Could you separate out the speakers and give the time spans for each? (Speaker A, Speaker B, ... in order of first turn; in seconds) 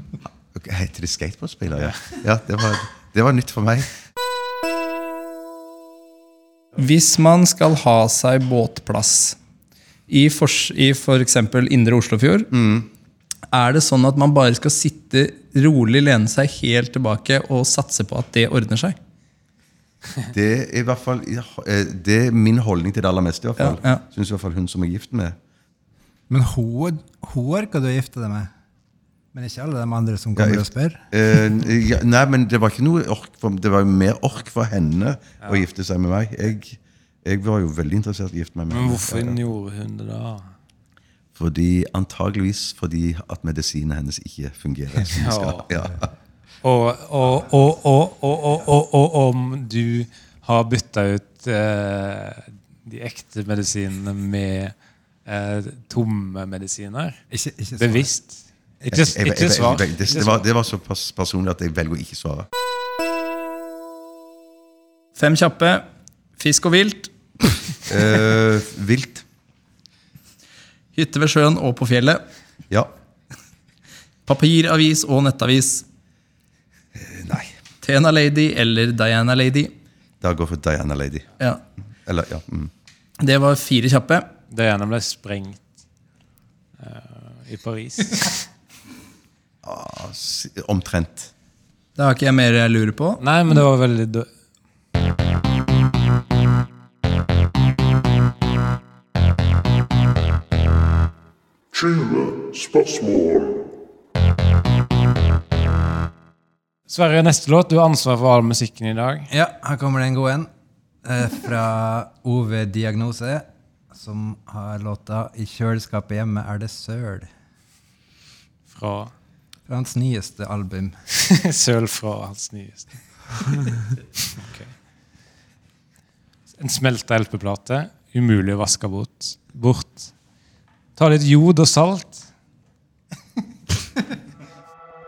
Speaker A: 0.5-3.9, 12.5-12.9, 20.2-25.4, 30.4-39.4, 41.4-46.1, 58.9-62.5, 67.9-69.2, 77.0-77.5, 80.2-81.3, 82.0-82.7, 89.6-91.3
Speaker B: 6.8-9.4, 10.1-12.5, 13.5-19.0, 23.6-24.0, 65.2-65.8, 66.4-67.6, 71.0-72.2, 74.3-75.8, 77.8-79.7, 83.2-84.3, 92.0-93.2
Speaker C: 26.3-28.5, 29.3-31.1, 57.3-58.1, 109.3-110.5, 111.0-117.3, 119.7-121.0
Speaker D: 38.7-40.5, 45.1-45.7, 46.6-54.8, 55.3-57.2, 57.8-60.5, 84.5-85.6, 86.8-88.4, 93.2-94.3, 106.9-109.3, 118.7-119.1, 121.1-122.9, 124.4-124.7, 126.6-130.1, 131.0-132.3